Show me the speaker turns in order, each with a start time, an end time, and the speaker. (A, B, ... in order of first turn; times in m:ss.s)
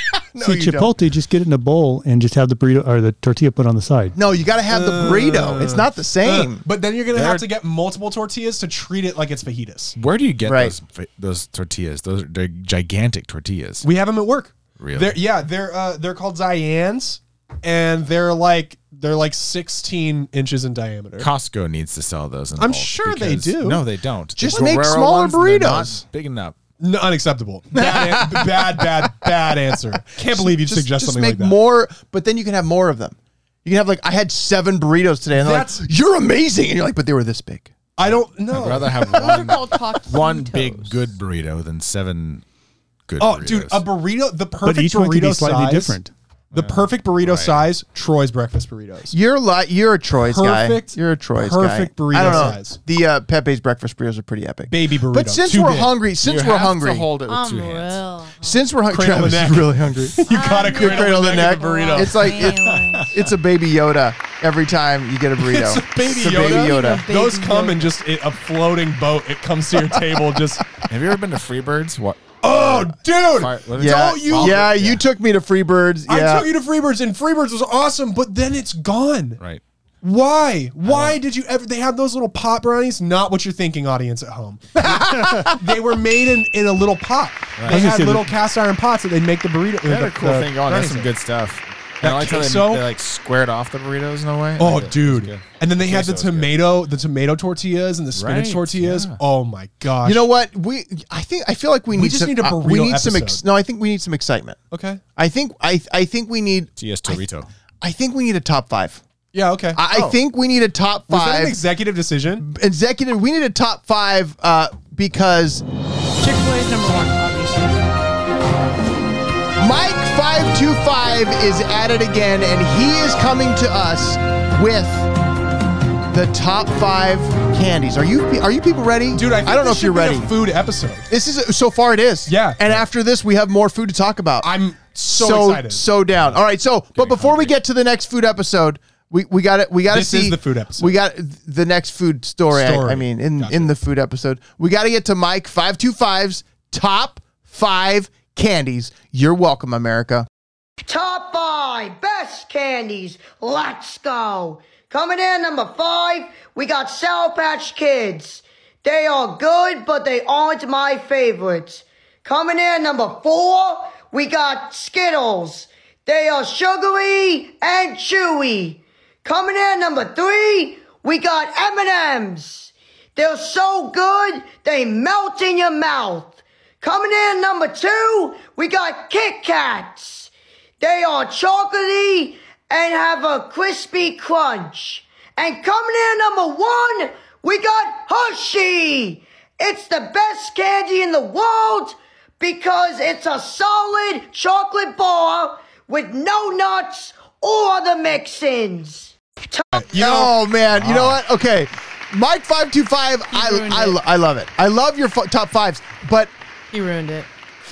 0:00.2-0:00.9 A
0:00.4-0:04.2 B
0:04.1-0:06.6 A
0:04.7-0:10.0 C
0:07.1-0:07.4 D
0:10.0-0:13.8 D
0:10.4-0:10.7 A
0:13.8-0:21.3 C
0:14.8-0:15.2 D
0:21.2-0:26.6 D
0:22.6-0:23.8 C
0:24.4-0:26.0 A
0:26.8-0:31.6 C
0:27.7-0:29.3 A
0:30.2-0:37.7 A
0:35.3-0:35.8 C
0:38.0-0:39.3 C
0:38.5-0:42.4 D
0:39.0-0:41.0 E
0:43.1-0:43.8 D
0:43.2-0:46.0 C
0:44.6-0:46.1 B
0:46.5-0:47.6 D
0:46.5-0:49.1 C
0:49.1-0:57.1 A
0:50.2-0:52.8 C
0:54.7-0:55.9 C
0:56.2-0:58.0 D
0:57.2-0:58.6 E
0:58.4-1:07.0 A
0:58.9-1:02.4 C
1:00.2-1:03.2 E
1:02.2-1:03.1 D
1:05.4-1:10.7 C
1:06.3-1:07.9 E
1:10.9-1:15.0 D
1:12.4-1:14.7 C
1:13.8-1:16.5 A
1:16.1-1:19.4 C
1:20.0-1:31.1 C
1:20.8-1:21.2 D
1:24.8-1:25.6 A
1:27.6-1:27.8 D
1:27.7-1:28.3 B
1:29.8-1:36.6 D
1:32.0-1:32.8 C
1:34.6-1:40.3 C
1:38.1-1:39.2 D
1:40.0-1:44.6 A
1:41.9-1:43.4 C
1:44.7-1:45.0 C
1:45.2-1:47.2 A
1:46.8-1:47.5 D
1:47.8-1:49.0 A
1:49.3-1:50.2 C
1:49.7-1:51.6 A
1:51.1-1:52.4 C
1:52.4-1:55.6 A
1:56.2-1:57.9 E
1:59.6-2:05.1 A
2:06.1-2:10.3 A
2:09.1-2:11.1 C
2:11.1-2:14.5 A
2:12.3-2:12.8 C
2:14.4-2:15.9 C
2:15.1-2:30.3 A
2:17.0-2:17.6 D
2:19.9-2:20.9 C
2:22.5-2:23.7 C
2:30.8-3:19.7 F
3:19.7-3:20.4 C
3:19.9-3:26.3 A
3:20.7-3:21.2 D
3:23.3-3:24.0 E
3:26.7-3:27.3 E